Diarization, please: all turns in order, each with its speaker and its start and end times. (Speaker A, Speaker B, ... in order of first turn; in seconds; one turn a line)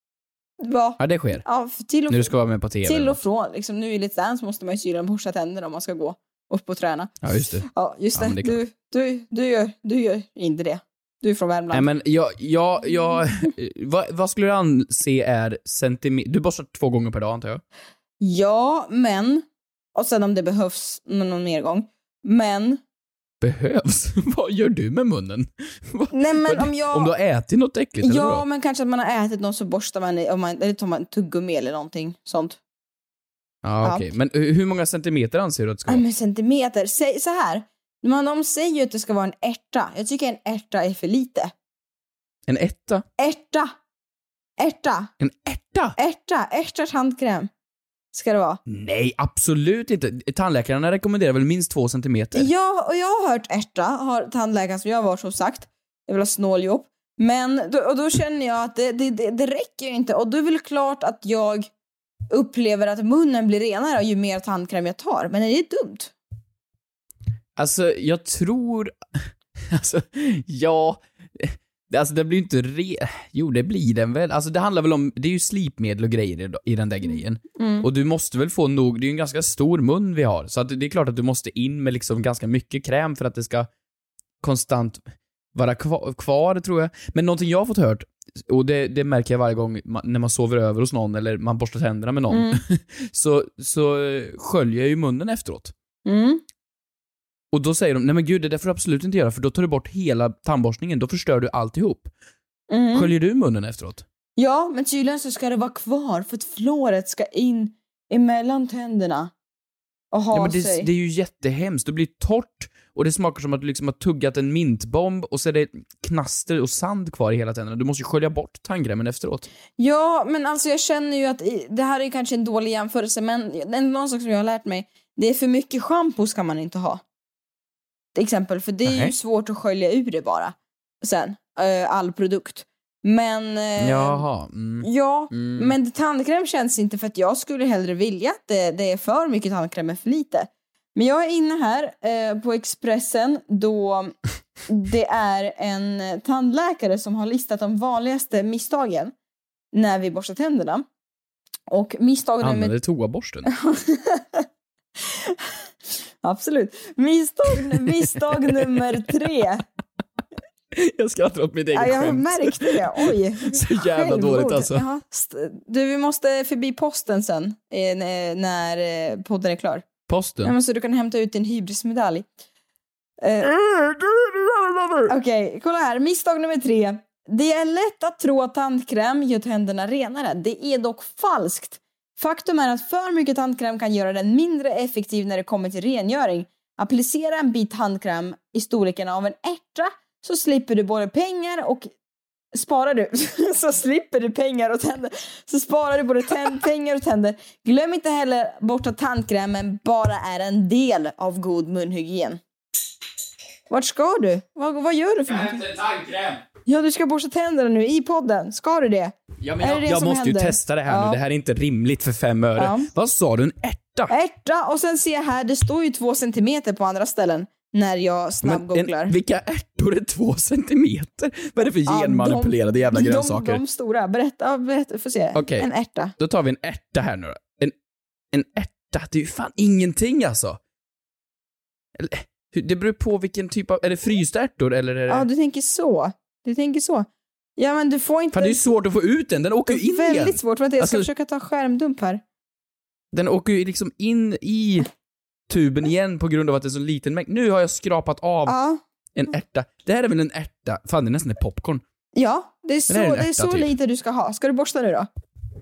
Speaker A: 0.6-2.3
Speaker B: 1.0-1.4
Speaker B: 2.1-3.2
Speaker A: 2.9-7.1
Speaker B: 7.2-8.6
Speaker A: 7.7-11.9
Speaker B: 11.7-17.6
Speaker A: 18.2-22.8
Speaker B: 23.4-28.4
Speaker A: 26.1-27.1
Speaker A: 28.0-32.6
Speaker B: 33.6-36.0
Speaker A: 35.9-41.5
Speaker B: 42.5-43.0
Speaker A: 43.2-43.7
Speaker A: 44.6-45.1
Speaker B: 45.2-46.0
Speaker A: 46.0-47.5
Speaker A: 48.1-48.6
Speaker B: 48.7-52.5
Speaker A: 52.4-61.7
Speaker A: 62.3-66.1
Speaker B: 67.6-68.9
Speaker B: 69.7-83.7
Speaker A: 77.6-77.9
Speaker B: 84.4-85.0
Speaker B: 85.5-95.7
Speaker A: 92.3-92.6
Speaker A: 96.1-96.4
Speaker B: 97.5-102.1
Speaker A: 102.7-103.1
Speaker B: 102.9-104.0
Speaker A: 104.4-109.3
Speaker A: 110.1-110.9
Speaker B: 110.3-119.5
Speaker A: 119.8-127.0
Speaker A: 128.2-134.2
Speaker B: 128.8-129.1
Speaker B: 133.8-135.7
Speaker A: 134.8-144.2
Speaker A: 144.7-149.1
Speaker A: 149.7-150.8
Speaker A: 151.7-152.7
Speaker B: 152.4-153.5
Speaker A: 153.5-154.5
Speaker A: 155.1-155.5
Speaker A: 156.2-159.6
Speaker B: 158.5-158.8
Speaker B: 160.7-163.0
Speaker A: 161.7-169.9
Speaker B: 163.5-164.8
Speaker B: 170.1-170.5
Speaker A: 170.4-172.3
Speaker A: 173.2-173.5
Speaker B: 173.6-175.1
Speaker A: 175.1-191.9
Speaker A: 192.5-202.4
Speaker A: 203.7-205.6
Speaker B: 205.3-206.4
Speaker A: 206.7-211.2
Speaker B: 209.4-214.1
Speaker A: 212.6-212.9
Speaker A: 214.1-219.1
Speaker B: 218.4-223.6
Speaker A: 221.9-226.1
Speaker B: 225.3-227.7
Speaker B: 228.3-230.6
Speaker B: 232.0-235.3
Speaker A: 235.1-238.6
Speaker B: 238.3-241.1
Speaker A: 239.7-242.2
Speaker B: 243.1-244.9
Speaker B: 245.5-248.6
Speaker A: 248.5-248.8
Speaker B: 249.2-251.8
Speaker A: 252.2-255.1
Speaker B: 252.9-253.7